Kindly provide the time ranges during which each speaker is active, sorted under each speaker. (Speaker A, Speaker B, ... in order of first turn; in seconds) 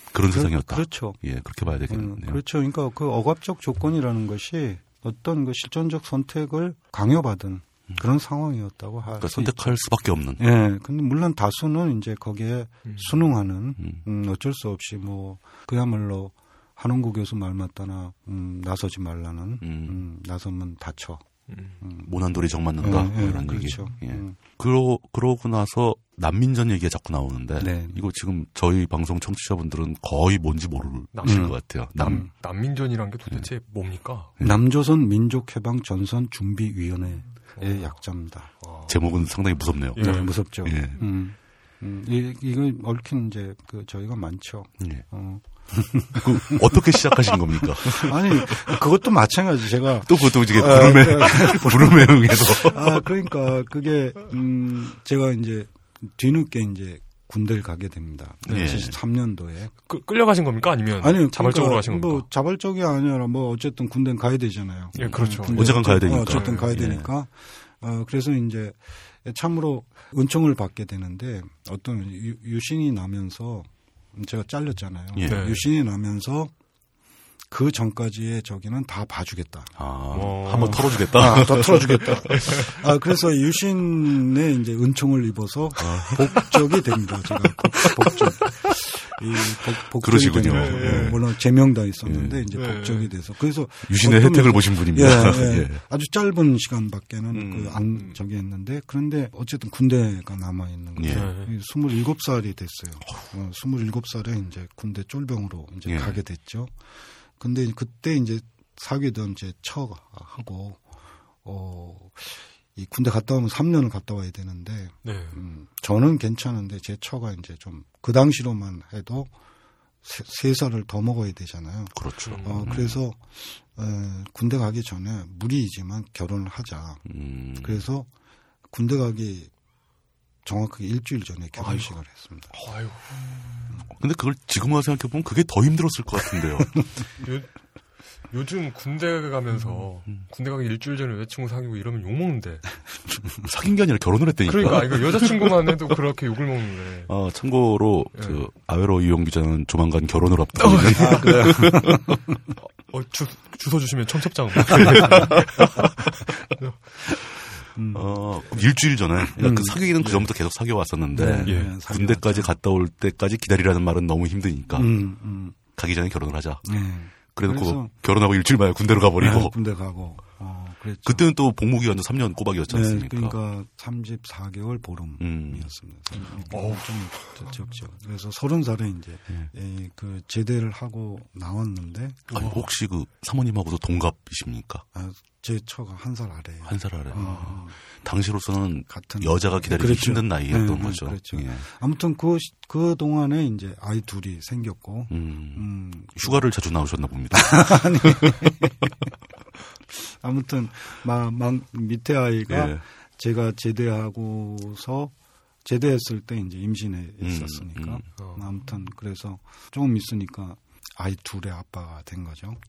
Speaker A: 0.1-2.4, 9.2-10.4, 19.6-20.0, 22.0-32.3, 38.9-41.0, 46.1-48.8, 50.0-53.1, 58.5-59.0, 65.0-67.1, 75.1-75.5, 79.8-82.6, 85.8-86.6, 87.8-88.2, 90.0-91.2, 92.0-92.5, 93.8-95.8, 97.3-97.8, 101.0-101.3, 105.8-106.2, 122.0-123.0, 127.1-127.8, 133.9-136.8, 143.4-145.5, 147.1-152.2, 154.7-155.1, 157.9-164.9, 165.8-166.7, 167.3-169.5, 171.0-173.4, 175.2-175.7, 182.3-184.8, 186.7-191.6, 195.1-195.6, 196.2-198.5, 202.5-202.8, 207.2-208.0
Speaker B: 0.2-1.2, 1.9-9.7, 10.4-21.2, 21.8-22.1, 22.8-24.4, 27.6-28.0, 31.2-32.3, 34.4-38.6, 40.0-46.8, 47.8-59.7, 61.0-76.5, 77.5-79.7, 80.5-106.7, 107.4-110.8, 111.4-119.3, 120.0-127.0, 127.6-128.1, 128.7-129.5, 130.4-132.5, 150.9-152.2, 157.7-158.1, 159.3-159.8, 161.1-162.5, 164.7-165.6, 166.7-167.9, 169.2-171.2, 172.7-182.4, 184.9-187.8, 188.9-196.4, 197.3-199.0, 199.9-205.1, 205.6-212.6
Speaker C: 21.5-21.8, 31.1-34.3, 37.5-37.9, 40.0-40.3, 58.5-58.7, 59.9-62.2, 65.0-66.7, 75.2-75.7, 80.1-81.5, 82.0-82.7, 90.4-91.2, 92.5-93.1, 97.9-98.2, 101.1-101.5, 115.0-115.4, 122.2-122.8, 131.6-131.9, 132.5-133.7, 137.2-137.5, 138.3-142.7, 144.4-147.1, 148.1-148.4, 150.6-151.9, 152.6-156.8, 161.4-161.7, 176.5-177.5, 182.3-182.7, 208.2-208.4